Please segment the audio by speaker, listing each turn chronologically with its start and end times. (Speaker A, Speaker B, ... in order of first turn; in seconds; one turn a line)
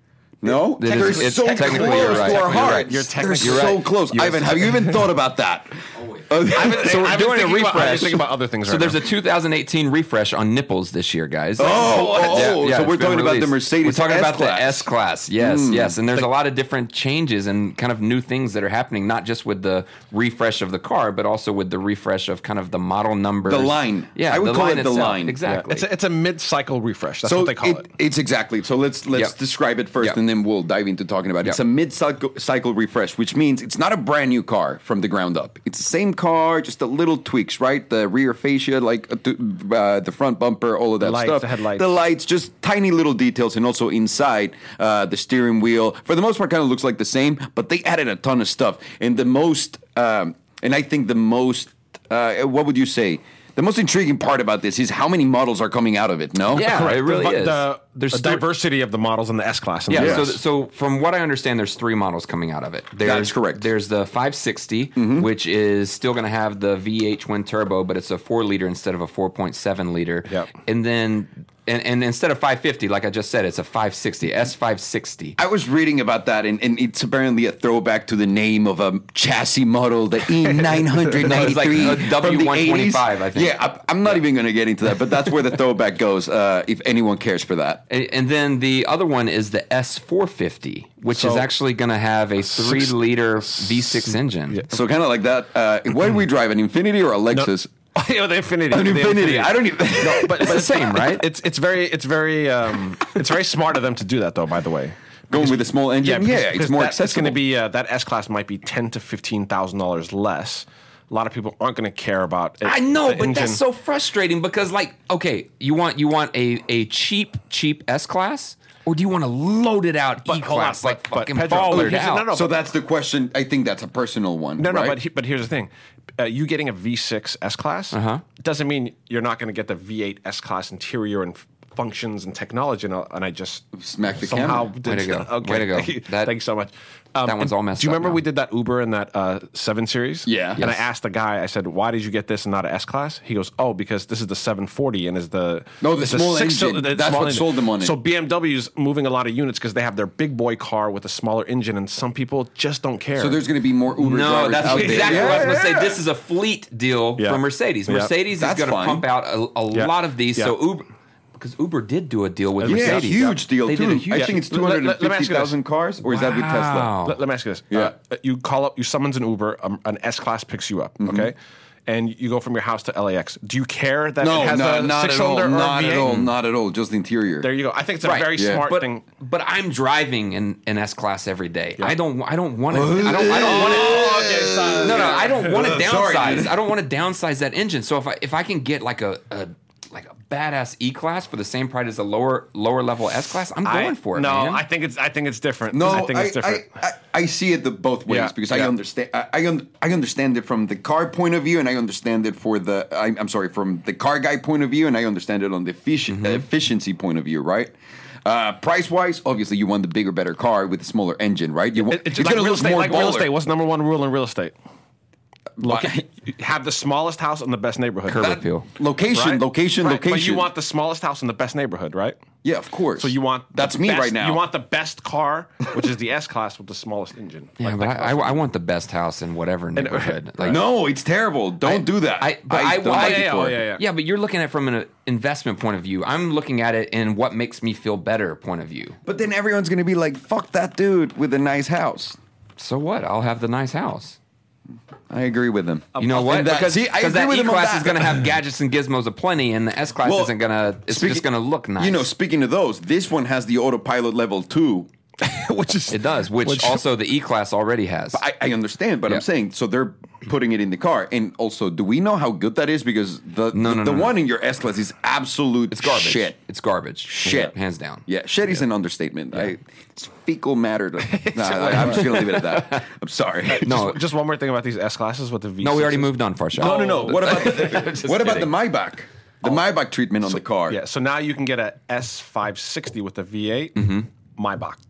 Speaker A: 0.4-7.0
Speaker B: 0.4-5.1
Speaker C: 0.8-3.8
Speaker B: 6.4-9.1
Speaker C: 6.5-25.9
Speaker A: 11.6-16.0
Speaker B: 11.9-12.3
Speaker A: 23.5-25.4
Speaker B: 25.4-27.9
Speaker A: 27.2-56.7
Speaker B: 41.0-41.9
Speaker C: 56.5-58.4
Speaker B: 56.5-60.4
Speaker C: 59.9-75.4
Speaker A: 59.9-60.3
Speaker A: 63.0-63.7
Speaker A: 65.0-65.3
Speaker A: 75.4-87.8
Speaker C: 81.2-84.2
Speaker C: 87.9-94.7
Speaker B: 91.1-91.5
Speaker B: 92.4-94.8
Speaker A: 94.7-97.7
Speaker B: 97.3-113.6
Speaker A: 98.7-100.5
Speaker C: 100.0-101.3
Speaker A: 105.3-107.4
Speaker C: 112.6-122.3
Speaker B: 120.2-122.6
Speaker A: 122.3-125.0
Speaker B: 124.6-133.7
Speaker C: 127.9-128.2
Speaker A: 133.7-134.7
Speaker B: 134.2-153.4
Speaker C: 134.8-136.4
Speaker C: 137.2-138.2
Speaker A: 140.2-140.6
Speaker C: 140.6-140.8
Speaker A: 145.8-148.0
Speaker A: 153.2-156.0
Speaker C: 154.0-160.8
Speaker B: 154.6-155.6
Speaker B: 157.2-158.1
Speaker A: 158.4-159.0
Speaker B: 159.7-160.6
Speaker C: 161.4-164.4
Speaker B: 162.6-163.4
Speaker A: 162.7-166.9
Speaker B: 164.1-171.3
Speaker C: 166.1-167.2
Speaker A: 171.0-171.3
Speaker B: 171.9-176.2
Speaker A: 174.2-177.5
Speaker B: 177.4-179.0
Speaker C: 178.0-184.1
Speaker A: 178.3-178.7
Speaker A: 182.7-186.5
Speaker B: 183.1-185.7
Speaker C: 184.8-194.6
Speaker B: 193.6-196.7
Speaker A: 195.7-207.7
Speaker B: 198.1-198.7
Speaker C: 206.1-206.5
Speaker A: 208.2-213.3
Speaker B: 211.7-214.5
Speaker A: 215.6-216.0
Speaker B: 215.6-218.5
Speaker C: 218.1-218.7
Speaker A: 218.8-220.5
Speaker B: 219.1-222.2
Speaker A: 222.4-224.4
Speaker B: 223.0-228.4
Speaker C: 227.6-230.7
Speaker B: 229.8-230.6
Speaker A: 230.5-233.6
Speaker C: 231.6-239.0
Speaker B: 232.7-233.8
Speaker A: 239.0-242.2
Speaker C: 242.6-244.2
Speaker A: 245.1-248.2
Speaker C: 246.0-252.1
Speaker A: 250.0-250.3
Speaker A: 250.9-254.9
Speaker B: 255.2-256.8
Speaker C: 255.9-258.2
Speaker A: 258.1-266.4
Speaker C: 263.5-264.1
Speaker C: 265.7-268.6
Speaker A: 267.1-267.5
Speaker A: 268.1-273.8
Speaker B: 271.1-272.6
Speaker C: 271.7-272.8
Speaker B: 273.5-277.8
Speaker C: 273.5-274.0
Speaker C: 275.6-278.5
Speaker A: 276.6-280.8
Speaker B: 280.3-284.8
Speaker C: 283.8-284.1